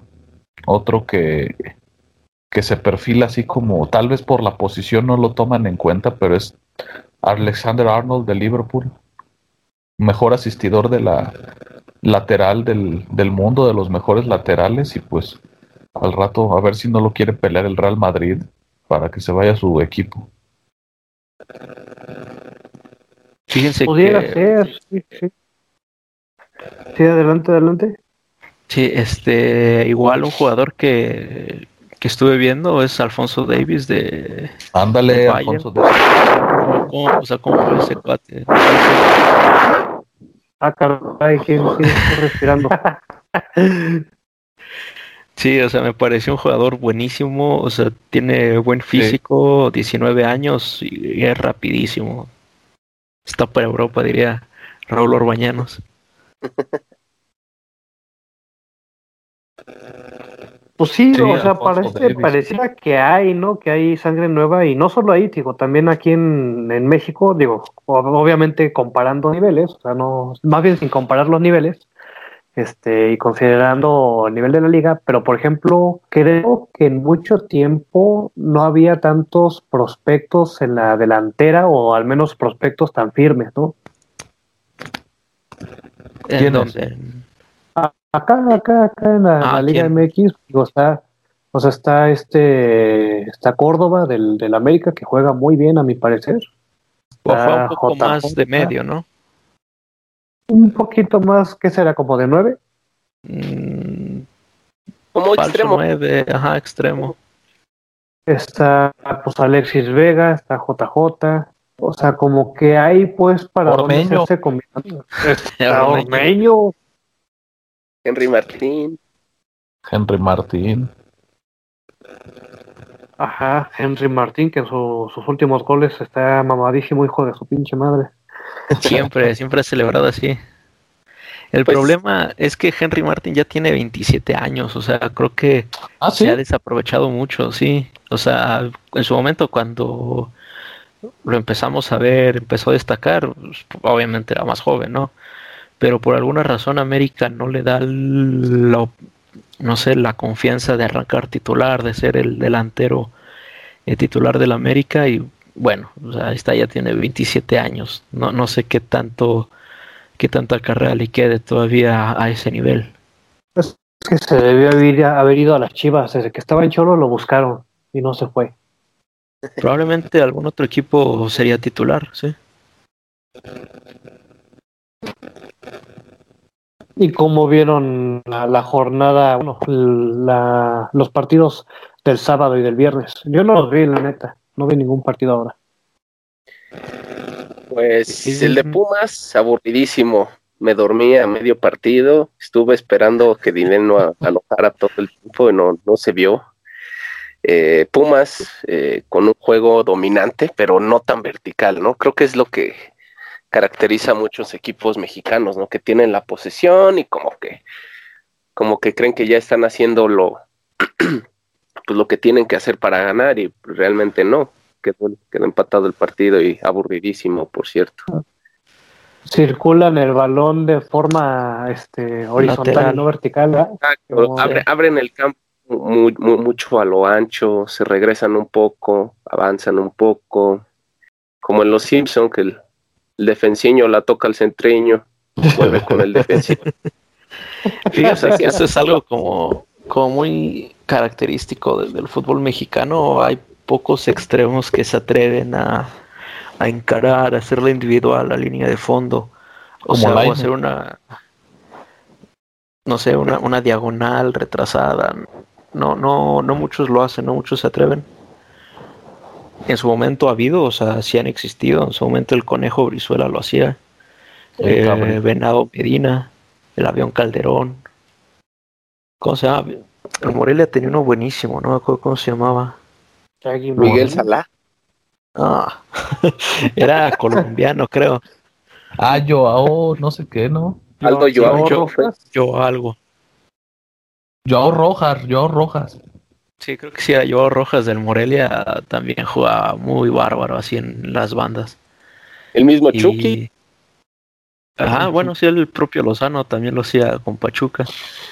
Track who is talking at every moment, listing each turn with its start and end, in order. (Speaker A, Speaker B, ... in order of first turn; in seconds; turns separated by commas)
Speaker A: 0.7-1.5, Speaker A: 2.5-6.6, Speaker A: 7.2-8.9, Speaker A: 10.0-11.3, Speaker A: 12.0-15.4, Speaker A: 16.0-20.3, Speaker B: 23.5-24.5, Speaker C: 23.9-25.3, Speaker C: 26.9-28.0, Speaker B: 28.7-34.5, Speaker A: 34.7-36.0, Speaker B: 35.1-39.3, Speaker C: 40.6-44.0, Speaker B: 45.4-52.3, Speaker A: 48.9-49.2, Speaker B: 53.2-55.8, Speaker C: 60.8-71.8, Speaker A: 61.1-62.4, Speaker C: 72.5-83.8, Speaker B: 86.2-87.2, Speaker A: 86.4-86.7, Speaker C: 87.8-91.0, Speaker B: 89.4-89.9, Speaker C: 91.5-96.4, Speaker C: 97.2-98.7, Speaker B: 97.2-99.0, Speaker C: 100.5-102.6, Speaker B: 103.3-104.2, Speaker D: 105.1-105.8, Speaker B: 105.4-107.1, Speaker C: 108.3-116.7, Speaker A: 113.7-114.3, Speaker B: 115.3-116.4, Speaker D: 118.0-119.0, Speaker A: 119.9-120.9, Speaker C: 123.2-128.1, Speaker A: 128.7-129.1, Speaker B: 128.8-130.4, Speaker B: 131.5-140.3, Speaker D: 131.7-131.9, Speaker A: 136.0-136.4, Speaker B: 141.2-145.1, Speaker B: 145.8-148.9, Speaker B: 149.6-153.1, Speaker B: 153.9-159.5, Speaker B: 160.2-162.9, Speaker C: 163.6-168.5, Speaker B: 169.6-172.3, Speaker C: 177.0-185.5, Speaker D: 187.7-196.4, Speaker C: 188.2-188.8, Speaker D: 197.4-202.8, Speaker D: 203.5-207.6, Speaker D: 208.6-211.2, Speaker D: 211.9-218.1, Speaker C: 219.2-224.5, Speaker B: 222.4-223.1, Speaker D: 223.8-230.6, Speaker B: 224.4-224.6, Speaker D: 231.4-232.6, Speaker D: 233.2-236.7, Speaker A: 235.4-236.4, Speaker C: 237.9-238.4, Speaker B: 237.9-245.9, Speaker D: 237.9-238.9, Speaker B: 246.6-249.3, Speaker B: 249.8-251.0, Speaker A: 249.9-250.5, Speaker B: 252.8-258.1, Speaker B: 259.7-263.8, Speaker B: 264.6-267.8, Speaker A: 264.6-265.2, Speaker B: 269.2-272.8, Speaker C: 273.4-274.2, Speaker D: 273.8-274.4, Speaker A: 273.8-274.1, Speaker B: 275.4-278.2, Speaker A: 279.0-280.9, Speaker D: 281.0-282.1, Speaker C: 281.0-282.2, Speaker B: 281.4-282.9, Speaker A: 284.4-286.0, Speaker B: 286.6-291.8, Speaker D: 292.5-293.4, Speaker B: 292.9-293.5, Speaker B: 294.8-297.9, Speaker C: 294.9-295.3